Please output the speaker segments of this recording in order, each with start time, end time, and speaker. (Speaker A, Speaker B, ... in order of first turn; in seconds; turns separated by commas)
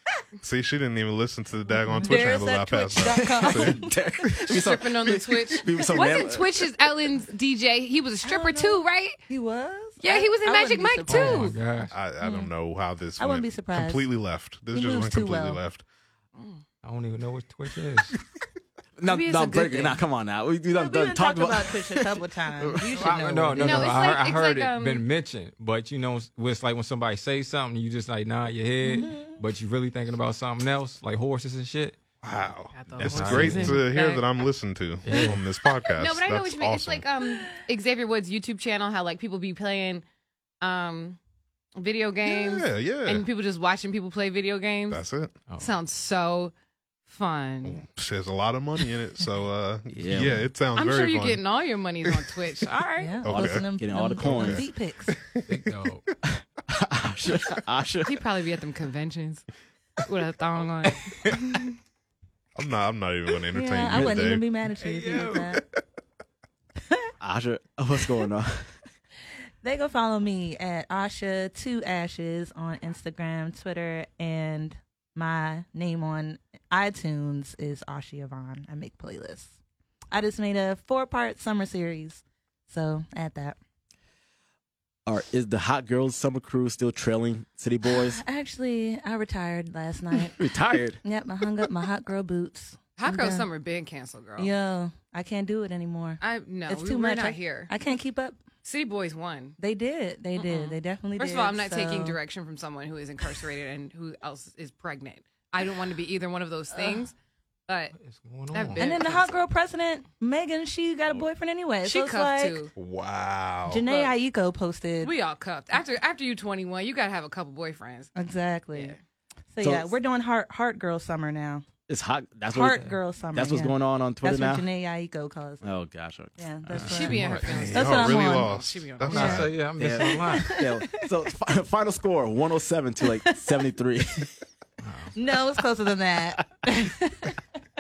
Speaker A: 0.4-3.9, Speaker B: 1.9-4.0, Speaker C: 3.1-6.7, Speaker D: 4.5-9.2, Speaker B: 8.2-11.6, Speaker D: 10.0-11.6, Speaker E: 11.1-11.9, Speaker A: 11.9-15.8, Speaker B: 12.2-12.5, Speaker B: 13.2-14.1, Speaker B: 14.7-15.6, Speaker D: 16.4-16.6, Speaker E: 16.8-18.1, Speaker C: 19.0-23.0, Speaker D: 19.1-20.0, Speaker B: 20.7-24.0, Speaker E: 23.0-32.0, Speaker D: 23.6-25.0, Speaker B: 28.8-29.4, Speaker A: 32.2-37.0, Speaker D: 32.7-34.2, Speaker E: 33.0-33.9, Speaker E: 35.0-35.4, Speaker D: 36.0-40.0, Speaker B: 37.2-37.6, Speaker D: 40.6-41.2, Speaker D: 41.8-45.0, Speaker A: 42.3-43.2, Speaker A: 44.9-45.4, Speaker E: 45.5-45.7, Speaker D: 45.6-46.5, Speaker D: 47.1-47.8, Speaker A: 47.6-51.4, Speaker C: 49.9-50.5, Speaker D: 50.8-53.2, Speaker B: 53.0-55.2, Speaker A: 53.2-53.7, Speaker C: 53.3-54.6, Speaker A: 54.2-55.7, Speaker E: 55.5-56.0, Speaker C: 56.2-58.2, Speaker D: 58.1-59.5, Speaker D: 60.0-61.0, Speaker E: 60.8-61.6, Speaker A: 62.5-64.5, Speaker B: 63.5-65.6, Speaker C: 63.9-64.2, Speaker E: 64.8-65.6, Speaker C: 67.2-68.7, Speaker B: 69.6-79.6, Speaker B: 80.1-83.6, Speaker C: 85.1-88.2, Speaker B: 87.9-90.4, Speaker C: 90.3-91.0, Speaker B: 91.0-93.5, Speaker D: 93.0-94.5, Speaker B: 94.4-98.4, Speaker D: 96.2-97.7, Speaker D: 98.6-99.6, Speaker B: 99.6-102.2, Speaker D: 100.4-107.1, Speaker B: 106.8-107.0, Speaker D: 107.7-108.0, Speaker E: 108.0-109.0, Speaker D: 108.5-109.5, Speaker B: 108.8-112.6, Speaker D: 111.8-112.7, Speaker A: 112.8-113.8, Speaker B: 113.7-115.1, Speaker D: 113.9-114.2, Speaker D: 115.0-118.1, Speaker B: 118.2-119.0, Speaker B: 119.5-121.7, Speaker C: 119.6-119.9, Speaker C: 121.9-124.7, Speaker B: 122.5-125.7, Speaker C: 125.6-126.4, Speaker B: 126.4-128.6, Speaker D: 126.7-129.4, Speaker E: 126.8-127.7, Speaker A: 127.4-129.6, Speaker E: 129.1-130.6, Speaker B: 129.1-131.1, Speaker C: 129.8-134.3, Speaker B: 133.0-133.7, Speaker E: 134.8-135.1, Speaker B: 135.1-137.4